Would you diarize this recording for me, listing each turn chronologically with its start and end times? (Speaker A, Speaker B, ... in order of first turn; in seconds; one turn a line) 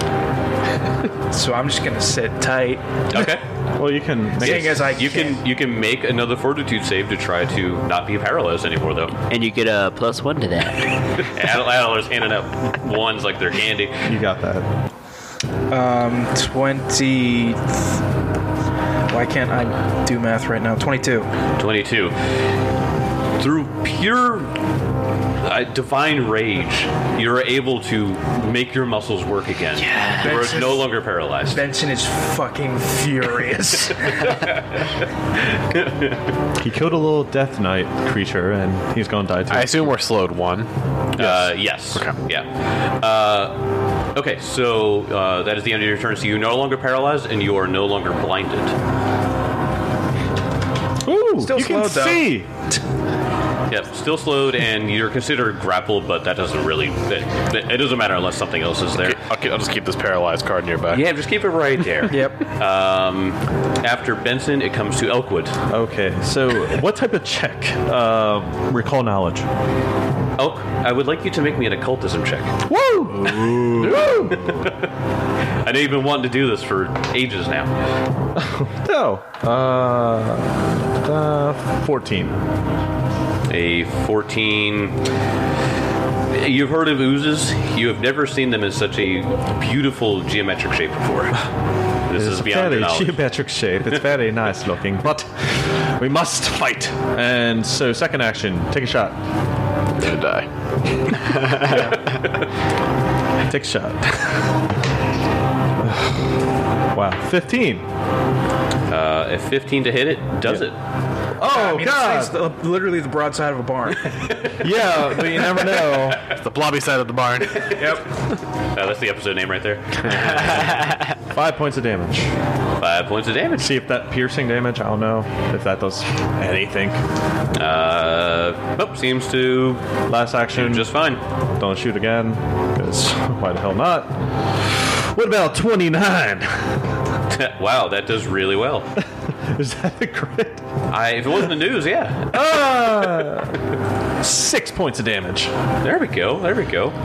Speaker A: 1.3-3.0
Speaker B: 3.1-3.4
Speaker C: 3.2-4.9
Speaker A: 4.4-5.4
Speaker B: 4.4-9.2
Speaker D: 9.3-11.0
Speaker B: 11.2-14.1
Speaker C: 14.1-14.7
Speaker A: 15.7-17.8
Speaker A: 19.1-21.3
Speaker B: 21.6-22.4
Speaker B: 23.4-24.6
Speaker B: 25.4-31.6
Speaker D: 29.8-30.5
Speaker A: 30.2-31.0
Speaker A: 31.5-34.4
Speaker B: 35.7-36.2
Speaker C: 36.6-39.9
Speaker E: 39.5-40.7
Speaker B: 41.1-43.6
Speaker B: 44.1-48.7
Speaker C: 51.0-52.5
Speaker A: 51.4-52.3
Speaker B: 53.7-59.2
Speaker E: 59.0-61.0
Speaker B: 60.9-65.5
Speaker A: 62.1-62.4
Speaker C: 65.7-69.5
Speaker B: 70.4-72.5
Speaker C: 72.7-74.7
Speaker B: 73.3-74.9
Speaker B: 75.6-77.7
Speaker C: 78.3-82.3
Speaker B: 83.5-85.0
Speaker B: 86.3-91.4
Speaker B: 92.1-93.2
Speaker C: 92.1-99.2
Speaker E: 100.0-100.5
Speaker C: 103.5-104.6
Speaker C: 105.8-106.2
Speaker C: 106.9-107.8
Speaker B: 108.9-110.8
Speaker C: 111.4-112.3
Speaker A: 111.4-114.5
Speaker C: 114.6-116.2
Speaker E: 116.2-117.9
Speaker B: 117.7-117.9
Speaker A: 117.8-118.0
Speaker B: 118.7-121.0
Speaker E: 120.0-120.5
Speaker C: 121.3-122.3
Speaker B: 122.8-123.7
Speaker C: 123.6-127.0
Speaker B: 127.5-129.8
Speaker C: 130.1-130.9
Speaker B: 130.5-131.2
Speaker C: 131.6-136.8
Speaker B: 137.3-138.9
Speaker C: 139.0-140.7
Speaker B: 140.9-142.4
Speaker C: 142.3-143.6
Speaker C: 144.2-145.5
Speaker B: 145.8-146.9